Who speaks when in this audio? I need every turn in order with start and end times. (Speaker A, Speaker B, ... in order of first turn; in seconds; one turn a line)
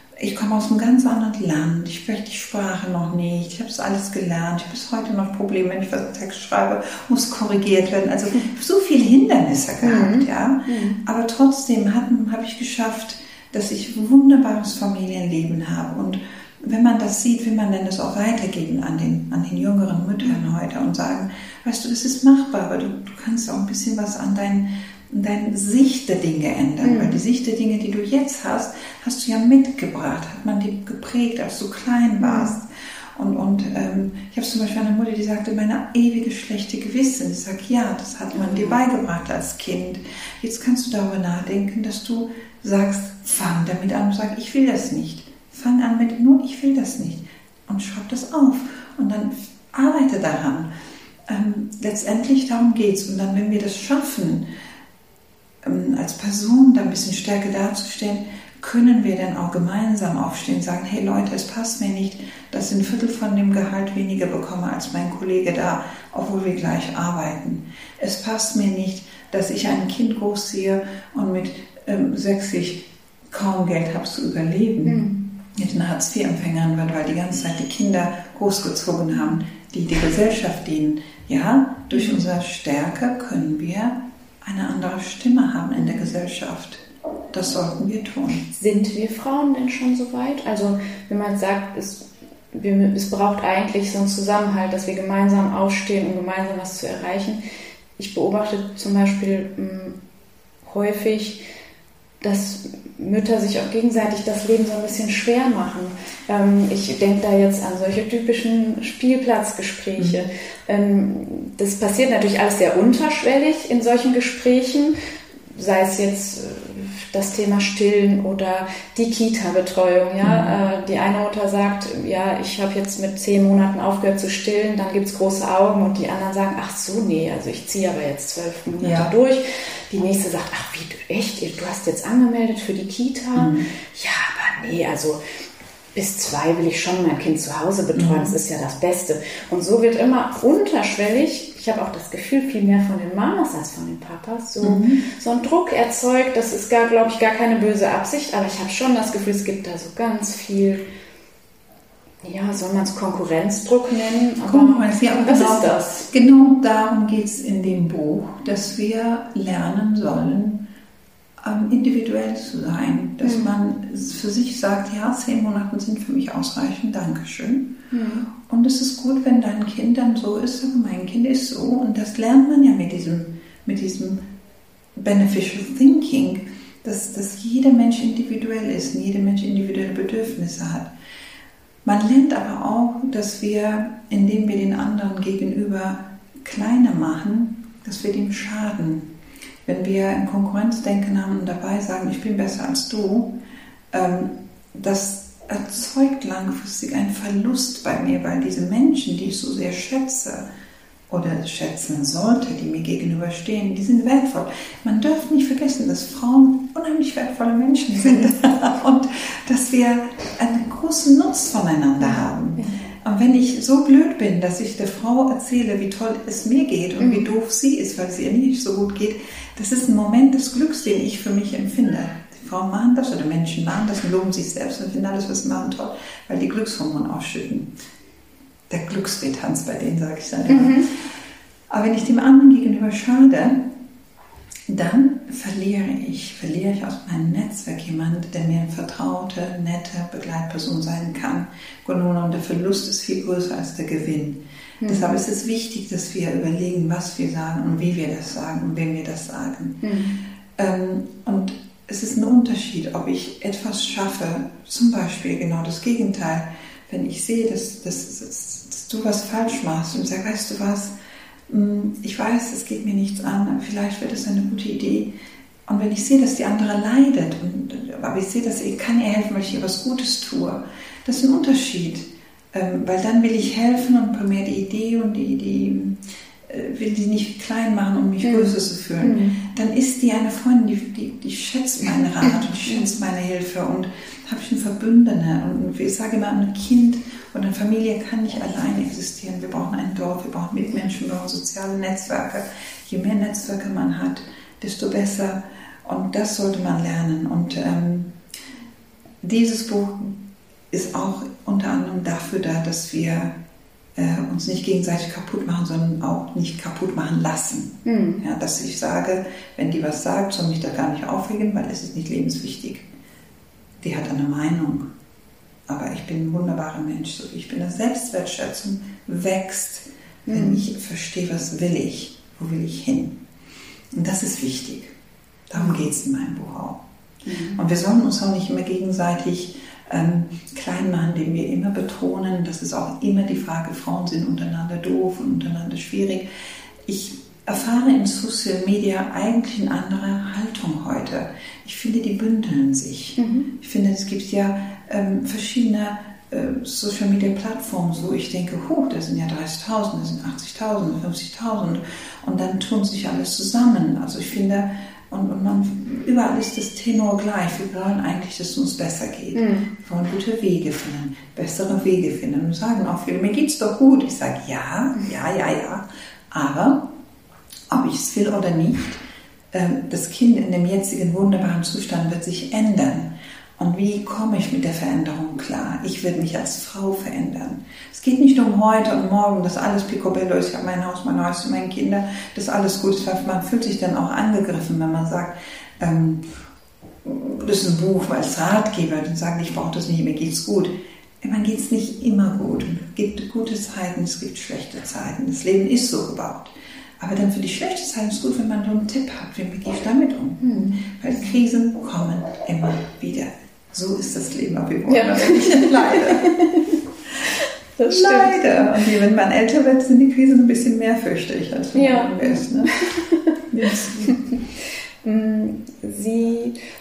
Speaker A: 0.2-50.7
Speaker B: 9.8-11.0
Speaker B: 26.8-27.2
Speaker B: 32.2-32.5
Speaker B: 38.4-38.8
Speaker A: 51.3-54.5
Speaker A: 55.6-88.5
Speaker B: 74.8-75.2
Speaker B: 88.5-97.4
Speaker B: 98.0-100.0
Speaker B: 100.7-101.4
Speaker B: 102.2-115.0
Speaker B: 115.5-135.2
Speaker A: 120.2-120.6
Speaker A: 128.8-129.1
Speaker A: 133.3-133.7
Speaker B: 135.9-150.8
Speaker A: 137.9-138.3
Speaker A: 144.6-145.0
Speaker B: 152.2-156.1
Speaker A: 154.4-160.7
Speaker A: 161.4-174.3
Speaker B: 163.2-163.5
Speaker B: 167.9-168.3
Speaker A: 175.0-180.9
Speaker A: 181.8-189.1
Speaker A: 189.7-193.4
Speaker A: 193.9-200.5
Speaker A: 201.1-227.7
Speaker B: 212.1-212.7
Speaker B: 217.0-217.2
Speaker A: 228.7-230.8
Speaker B: 230.5-230.9
Speaker A: 231.7-233.7
Speaker A: 234.7-249.9
Speaker B: 244.8-245.2
Speaker B: 249.8-250.2
Speaker A: 250.6-260.9
Speaker A: 261.5-265.1
Speaker A: 265.7-298.2
Speaker B: 278.2-279.4
Speaker B: 282.7-282.9
Speaker A: 299.2-300.2
Speaker A: 300.7-303.4
Speaker A: 304.0-312.9
Speaker B: 307.9-308.2
Speaker A: 313.8-314.9
Speaker A: 315.7-323.2
Speaker B: 320.3-320.6
Speaker A: 323.9-324.9
Speaker A: 325.5-326.8
Speaker B: 327.2-327.6
Speaker A: 327.6-336.3
Speaker A: 336.9-366.9
Speaker B: 343.2-343.5
Speaker B: 359.3-359.7
Speaker A: 367.7-369.0
Speaker A: 369.5-386.3
Speaker A: 387.0-406.4
Speaker B: 400.4-401.3
Speaker B: 404.9-406.8
Speaker B: 407.8-408.6
Speaker A: 407.9-412.8
Speaker B: 411.7-413.2
Speaker A: 413.5-414.2
Speaker B: 415.0-416.6